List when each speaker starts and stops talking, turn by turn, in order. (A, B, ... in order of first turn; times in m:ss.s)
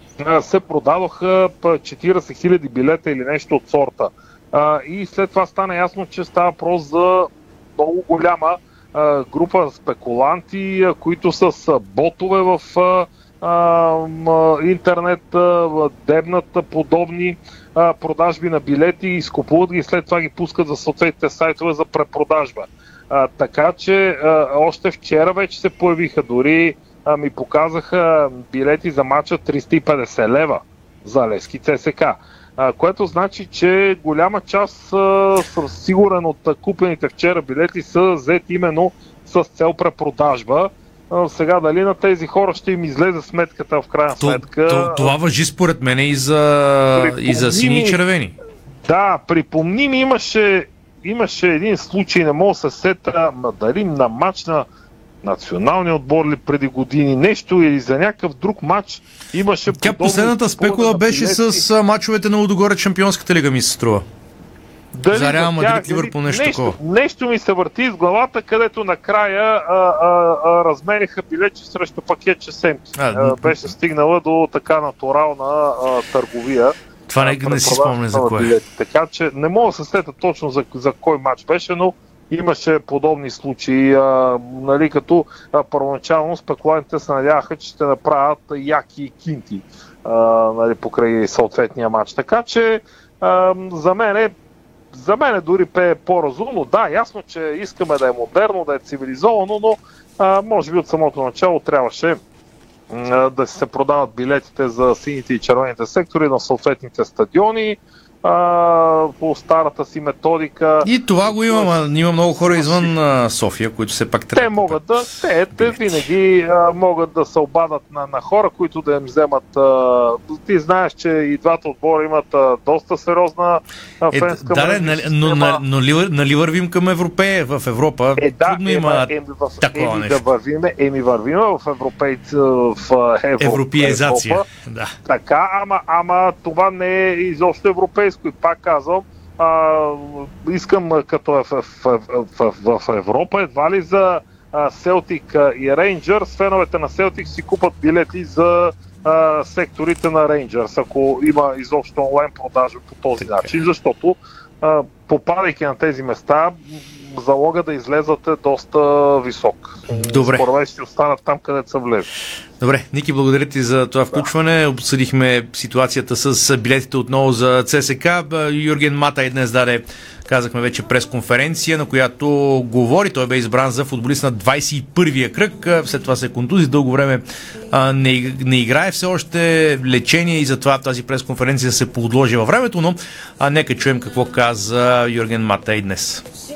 0:00.2-0:45.1 A
0:44.2-0:48.4 B
0:47.0-0:48.0 A
0:48.8-0:54.7 A
0:55.2-1:01.6 A
0:59.7-1:04.0 B
1:04.9-1:34.3 A
1:05.1-1:06.8 B
1:13.0-1:13.8 B
1:17.1-1:18.5 B
1:34.9-1:42.2 A
1:42.9-1:52.9 A
1:50.8-1:56.0 B
1:54.3-2:05.6 A
2:04.1-2:10.2 B
2:08.2-2:14.5 A
2:13.4-2:14.9 B
2:15.0-2:36.6 A
2:33.2-2:33.5 B
2:37.1-2:42.1 A
2:40.0-2:40.4 B
2:42.6-3:06.2 B